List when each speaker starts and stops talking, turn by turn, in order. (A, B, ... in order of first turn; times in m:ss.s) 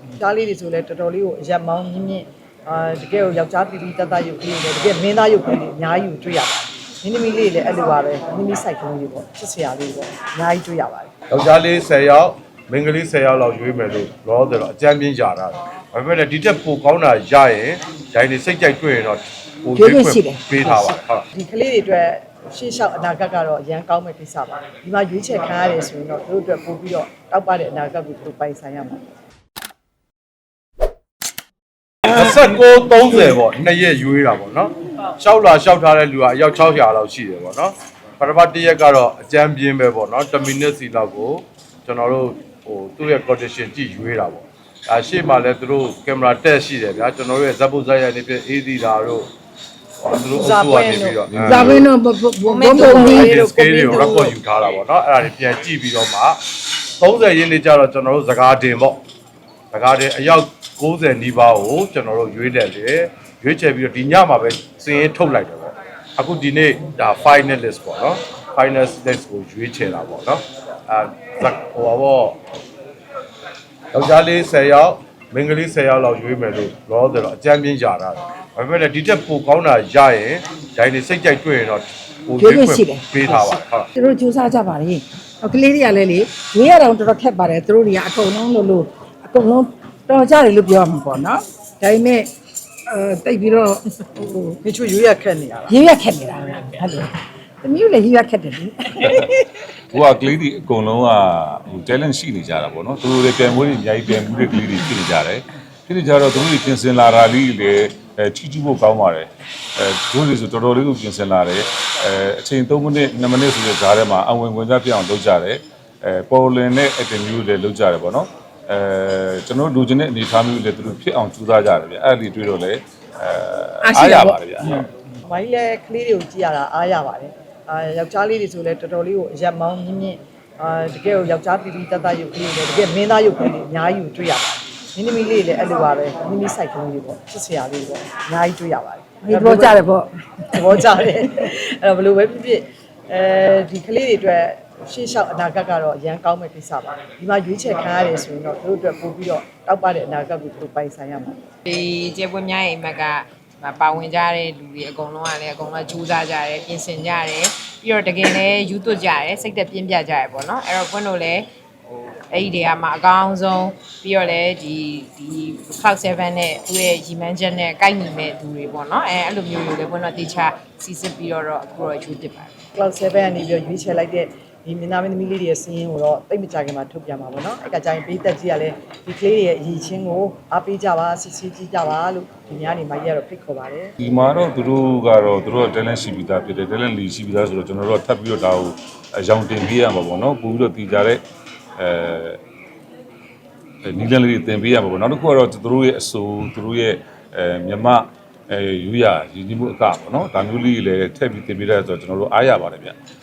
0:00.2-0:11.1 A
0:11.3-0:21.3 B
0:19.8-0:20.4 C
0:20.6-0:29.0 A
0:32.0-0:49.3 B
0:50.0-0:51.9 B
0:50.2-0:51.2 A
0:51.3-0:51.8 D
0:51.4-0:53.4 C
0:52.5-0:54.4 E
0:52.7-0:56.4 B
0:57.0-0:59.0 B
0:59.7-1:12.4 B
1:13.9-1:23.9 B
1:22.4-1:32.3 C
1:32.9-1:34.6 C
1:34.6-1:35.8 A
1:35.7-1:37.1 C
1:37.6-1:39.7 C
1:39.9-2:04.9 D
2:03.8-2:04.4 C
2:05.3-2:19.8 A
2:19.2-2:20.6 C
2:20.5-2:31.4 A
2:31.7-2:41.5 E
2:42.3-2:52.5 E
2:52.7-3:03.9 A
3:04.0-3:11.2 D
3:11.8-3:12.4 D
3:13.8-3:23.0 D